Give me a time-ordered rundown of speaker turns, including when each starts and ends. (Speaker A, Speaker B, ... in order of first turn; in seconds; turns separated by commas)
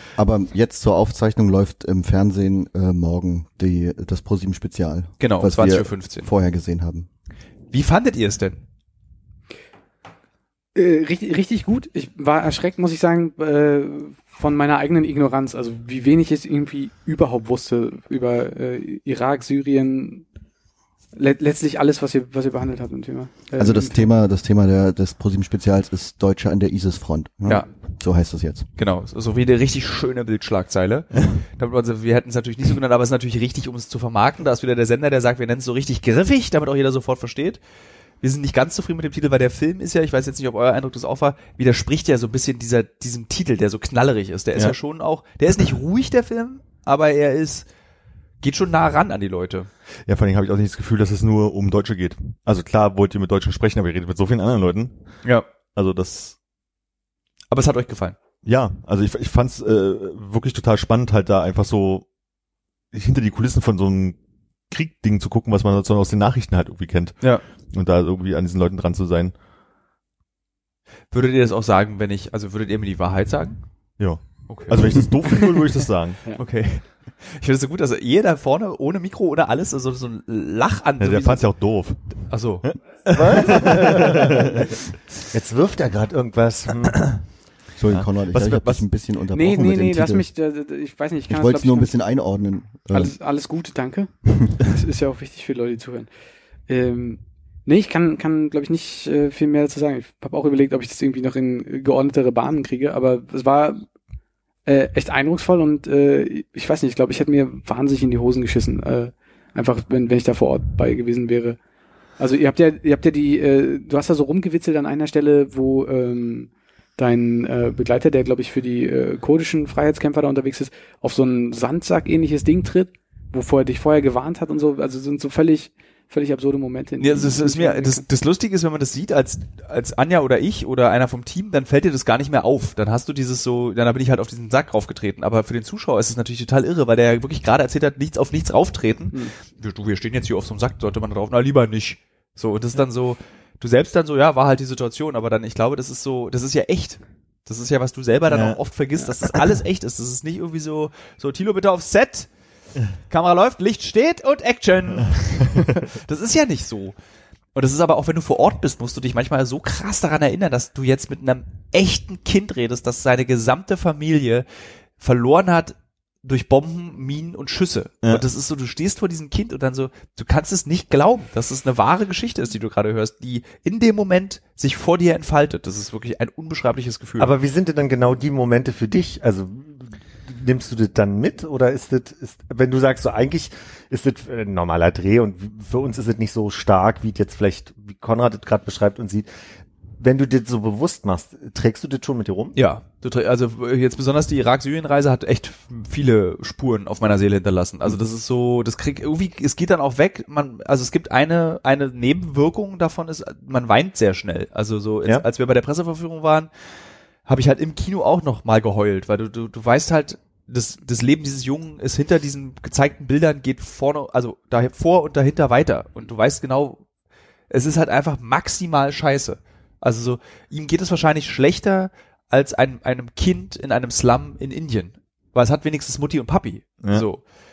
Speaker A: 0.2-7.1, Speaker B: 5.2-6.3, Speaker B: 7.7-8.6, Speaker C: 10.7-20.2, Speaker C: 21.1-24.1, Speaker A: 23.6-28.7, Speaker B: 28.8-37.6, Speaker B: 38.2-47.7, Speaker B: 48.4-49.7, Speaker D: 50.1-54.9, Speaker D: 55.7-56.4, Speaker B: 57.5-58.2, Speaker D: 58.4-62.0, Speaker D: 62.9-64.2, Speaker D: 64.7-67.2, Speaker D: 67.7-69.3, Speaker B: 71.1-73.6, Speaker D: 74.0-76.2, Speaker B: 74.5-75.6, Speaker B: 76.3-81.4, Speaker D: 81.0-84.7, Speaker B: 82.3-82.7, Speaker E: 83.1-84.7, Speaker E: 85.3-87.1, Speaker A: 87.8-90.3, Speaker D: 87.9-88.8, Speaker C: 89.3-91.9, Speaker A: 91.3-93.1, Speaker C: 92.9-96.1, Speaker C: 96.7-103.8, Speaker C: 104.7-111.6, Speaker C: 112.2-128.0, Speaker B: 127.0-152.3, Speaker D: 148.3-148.6, Speaker B: 153.1-156.9, Speaker B: 157.5-164.4, Speaker B: 165.0-177.3, Speaker E: 177.2-189.3, Speaker E: 190.0-192.6, Speaker B: 192.5-206.5, Speaker B: 207.2-216.8, Speaker B: 217.5-227.2